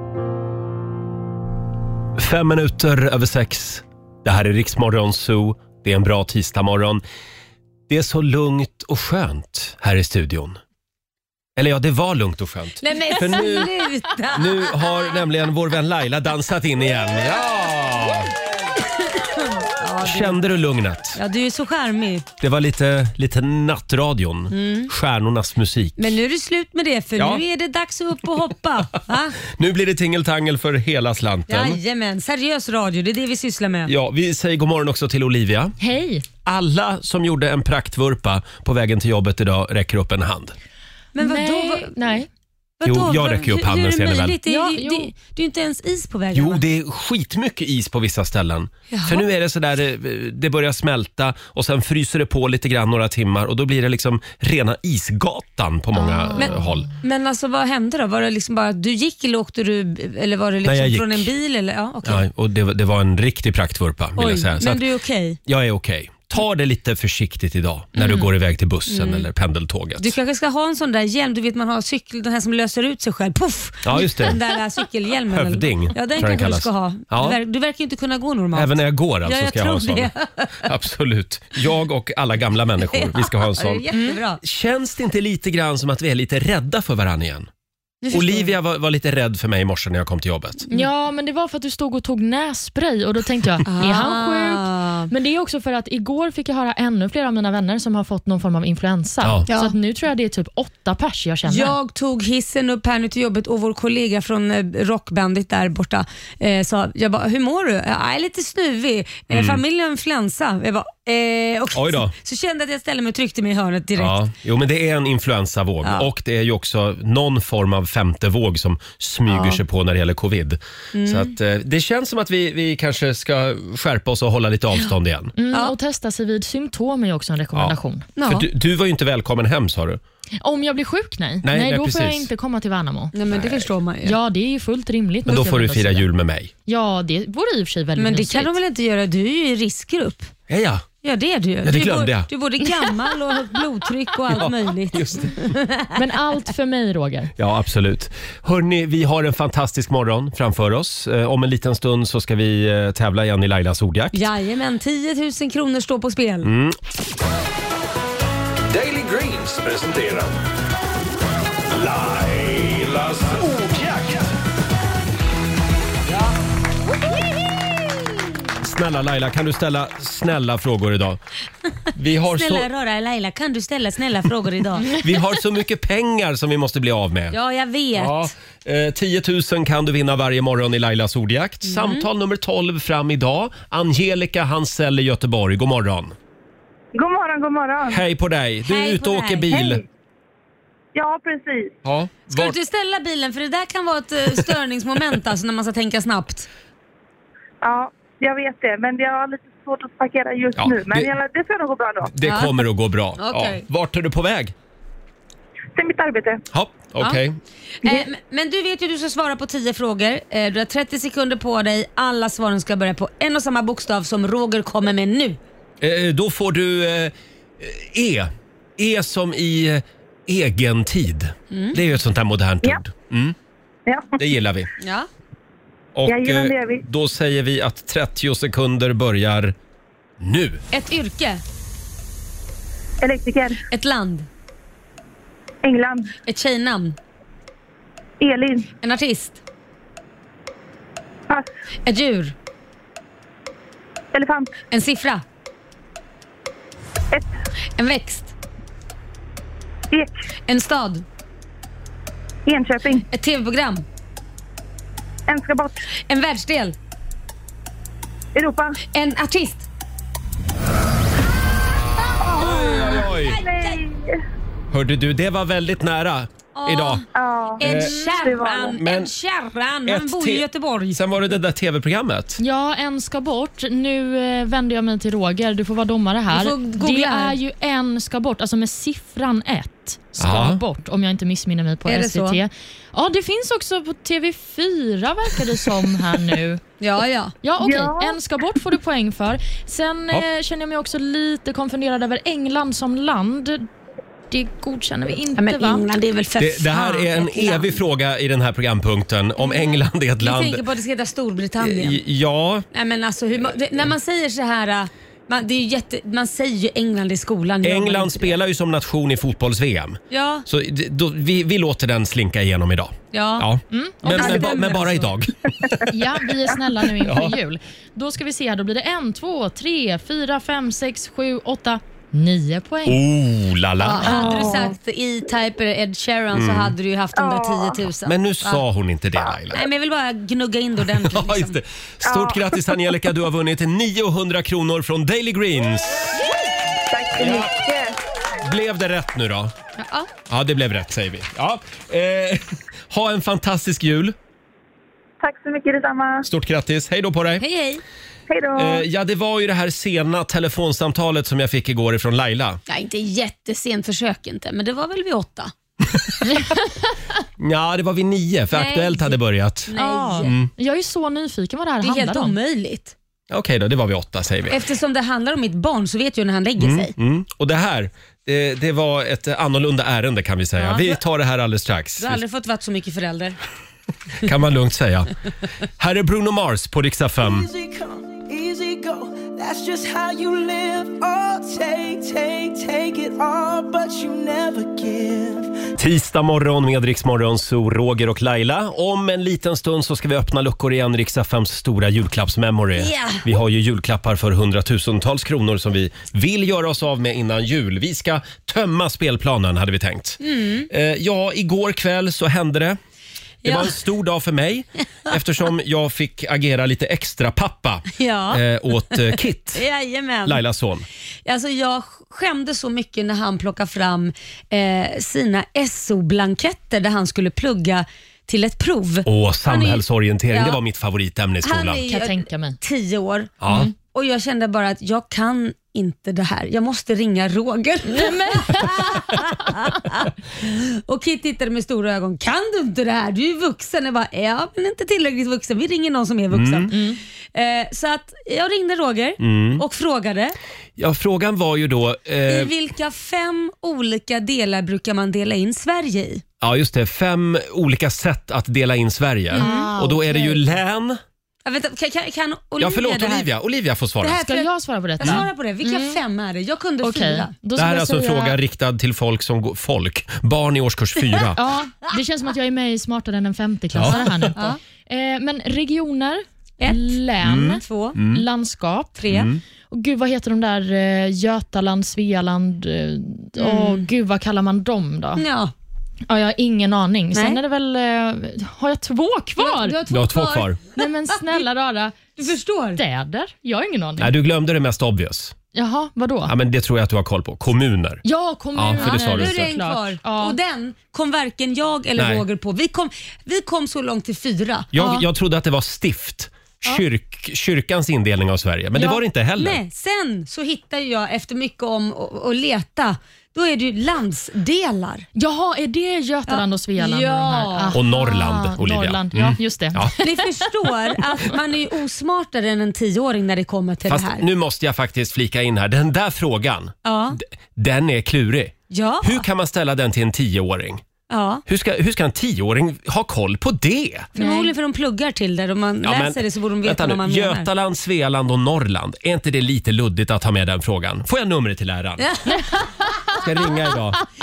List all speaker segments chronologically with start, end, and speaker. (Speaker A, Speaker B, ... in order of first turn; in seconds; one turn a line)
Speaker A: 2.1-7.0
Speaker A: 7.9-10.6
Speaker A: 11.6-13.7
Speaker B: 12.8-14.7
Speaker A: 14.3-18.3
Speaker B: 18.8-20.4
Speaker A: 20.0-21.2
Speaker B: 21.1-22.3
Speaker A: 22.4-26.1
Speaker B: 24.5-24.9
Speaker B: 26.0-29.4
Speaker A: 27.1-27.4
Speaker A: 29.4-31.8
Speaker B: 31.5-33.9
Speaker A: 33.9-35.7
Speaker C: 35.8-36.2
Speaker A: 36.4-40.5
Speaker B: 41.1-42.0
Speaker C: 41.2-42.3
Speaker B: 42.8-46.6
Speaker A: 42.8-44.4
Speaker C: 44.5-45.1
Speaker A: 46.3-56.9
Speaker B: 48.9-49.2
Speaker C: 56.0-56.4
Speaker B: 56.4-62.2
Speaker A: 60.6-61.3
Speaker A: 62.0-64.8
Speaker B: 64.2-65.4
Speaker A: 65.5-70.2
Speaker B: 68.0-68.3
Speaker B: 68.9-69.3
Speaker B: 70.0-80.7
Speaker A: 73.8-74.4
Speaker A: 75.3-77.4
Speaker A: 78.5-83.8
Speaker B: 82.8-84.4
Speaker A: 84.4-87.5
Speaker B: 88.0-88.5
Speaker A: 88.1-90.7
Speaker C: 90.7-101.8
Speaker B: 93.7-95.1
Speaker B: 99.5-99.7
Speaker B: 101.5-114.2
Speaker A: 109.3-109.6
Speaker A: 111.7-112.1
Speaker A: 114.0-125.3
Speaker B: 119.3-119.6
Speaker B: 120.9-121.3
Speaker C: 125.4-128.1
Speaker A: 127.5-130.0
Speaker B: 128.2-128.5
Speaker C: 130.4-133.1
Speaker A: 131.4-132.3
Speaker B: 133.1-134.2
Speaker A: 133.3-133.7
Speaker C: 134.0-136.1
Speaker A: 135.2-136.5
Speaker C: 136.7-138.5
Speaker B: 137.9-140.3
Speaker A: 140.5-140.8
Speaker B: 141.0-146.0
Speaker A: 141.6-142.3
Speaker A: 144.3-145.5
Speaker C: 145.9-147.3
Speaker A: 147.4-154.3
Speaker B: 154.1-156.5
Speaker A: 156.4-156.8
Speaker D: 158.7-160.3
Speaker D: 161.7-164.3
Speaker A: 168.6-171.2
Speaker A: 171.9-172.7
Speaker B: 172.2-175.0
Speaker A: 174.8-177.4
Speaker B: 177.3-178.3
Speaker A: 177.9-186.1
Speaker B: 181.7-182.1
Speaker E: 186.9-188.0
Speaker A: 187.9-189.8
Speaker B: 188.7-189.5
Speaker E: 189.5-189.8
Speaker E: 190.9-191.7
Speaker A: 191.8-192.6
Speaker B: 192.3-196.5
Speaker E: 197.6-202.1
Speaker A: 200.5-201.1
Speaker A: 202.0-204.5
Speaker B: 202.2-202.6
Speaker B: 203.2-203.6
Speaker E: 205.8-206.4
Speaker A: 206.5-207.4
Speaker B: 207.8-215.4
Speaker A: 215.8-223.3
Speaker B: 221.5-221.8
Speaker E: 223.9-224.1
Speaker A: 224.2-224.7
Speaker B: 224.8-225.1
Speaker A: 225.9-229.5
Speaker E: 226.1-226.8
Speaker A: 230.2-230.6
Speaker B: 230.7-231.4
Speaker E: 233.0-233.6
Speaker B: 233.7-234.3
Speaker E: 235.6-236.1
Speaker B: 236.2-236.9
Speaker E: 238.2-238.7
Speaker B: 238.8-239.4
Speaker B: 241.8-242.3
Speaker E: 244.1-244.6
Speaker B: 244.7-245.2
Speaker B: 247.8-248.3
Speaker B: 250.5-251.0
Speaker E: 252.4-253.1
Speaker B: 253.1-253.8
Speaker E: 255.3-255.8
Speaker B: 256.1-256.8
Speaker E: 258.3-258.8
Speaker B: 258.9-259.7
Speaker E: 262.2-264.1
Speaker A: 262.4-263.4
Speaker B: 262.6-263.8
Speaker A: 264.7-267.0
Speaker B: 266.6-267.0
Speaker E: 267.1-268.8
Speaker B: 267.6-271.0
Speaker A: 267.6-268.1
Speaker A: 268.6-269.1
Speaker A: 269.8-272.4
Speaker C: 272.4-286.6
Speaker B: 276.3-277.4
Speaker A: 280.2-280.6
Speaker B: 281.9-282.4
Speaker B: 286.8-287.3
Speaker C: 287.4-293.6
Speaker E: 287.6-288.1
Speaker C: 294.3-295.8
Speaker B: 295.4-297.8
Speaker A: 296.4-300.6
Speaker B: 299.4-302.0
Speaker A: 301.6-302.6
Speaker B: 302.7-308.4
Speaker A: 307.6-315.9
Speaker B: 310.1-310.4
Speaker B: 313.1-313.5
Speaker C: 313.7-314.9
Speaker B: 314.1-314.9
Speaker C: 315.9-323.0
Speaker A: 317.0-317.4
Speaker A: 322.9-324.3
Speaker B: 323.8-328.6
Speaker E: 324.0-324.7
Speaker A: 326.3-326.7
Speaker E: 327.2-327.8
Speaker A: 328.1-329.7
Speaker B: 329.5-331.6
Speaker A: 330.9-336.2
Speaker E: 332.1-332.7
Speaker E: 336.9-337.9
Speaker A: 337.1-337.5
Speaker A: 338.4-339.5
Speaker B: 339.8-340.1
Speaker A: 340.3-344.1
Speaker E: 345.2-346.2
Speaker A: 346.2-347.4
Speaker B: 347.4-347.8
Speaker E: 348.3-348.8
Speaker A: 348.5-352.6
Speaker B: 352.7-355.5
Speaker C: 356.3-356.6
Speaker A: 357.4-360.5
Speaker B: 358.5-360.4
Speaker C: 359.8-362.3
Speaker B: 361.8-362.9
Speaker A: 363.3-364.6
Speaker B: 364.5-366.9
Speaker A: 366.6-372.2
Speaker B: 370.6-371.0
Speaker B: 372.0-373.4
Speaker A: 374.2-375.1
Speaker A: 375.8-377.5
Speaker F: 377.2-385.7
Speaker A: 385.8-402.8
Speaker B: 392.8-393.3
Speaker B: 400.2-400.7
Speaker B: 403.4-403.8
Speaker A: 403.4-409.6
Speaker B: 408.0-410.4
Speaker A: 410.2-410.9
Speaker B: 411.2-420.6
Speaker A: 419.0-421.8
Speaker B: 421.4-436.8
Speaker C: 421.9-422.6
Speaker A: 423.4-423.7
Speaker C: 427.9-429.8
Speaker A: 436.3-436.7
Speaker C: 436.7-437.0
Speaker B: 437.3-440.3
Speaker A: 439.2-439.6
Speaker A: 440.8-442.5
Speaker B: 442.3-446.2
Speaker A: 446.4-451.0
Speaker B: 449.3-449.7
Speaker C: 449.3-450.5
Speaker B: 451.4-453.3
Speaker A: 452.6-454.2
Speaker B: 454.0-457.3
Speaker C: 454.2-456.0
Speaker C: 456.8-458.4
Speaker A: 457.6-461.4
Speaker C: 461.3-469.0
Speaker A: 463.7-464.3
Speaker B: 466.6-468.0
Speaker A: 467.2-468.2
Speaker B: 469.0-469.3
Speaker A: 469.1-469.4
Speaker C: 469.7-475.2
Speaker B: 473.4-473.9
Speaker B: 475.2-475.5
Speaker C: 476.1-479.8
Speaker B: 477.1-477.4
Speaker B: 479.4-481.4
Speaker A: 479.9-480.6
Speaker C: 480.8-482.0
Speaker B: 482.2-482.8
Speaker C: 482.8-484.1
Speaker A: 484.0-485.3
Speaker C: 485.5-486.3
Speaker A: 486.2-488.0
Speaker C: 488.0-490.4
Speaker A: 488.5-489.5
Speaker B: 488.8-495.0
Speaker A: 491.9-492.2
Speaker A: 494.7-499.6
Speaker B: 498.8-505.1
Speaker C: 505.1-510.2
Speaker B: 506.3-507.8
Speaker A: 507.7-509.9
Speaker B: 510.0-514.2
Speaker A: 513.9-520.8
Speaker B: 516.8-517.2
Speaker B: 518.7-519.2
Speaker B: 521.1-521.4
Speaker A: 521.5-524.1
Speaker B: 524.1-527.5
Speaker C: 524.1-524.5
Speaker A: 525.8-532.1
Speaker B: 532.0-533.0
Speaker A: 533.1-534.0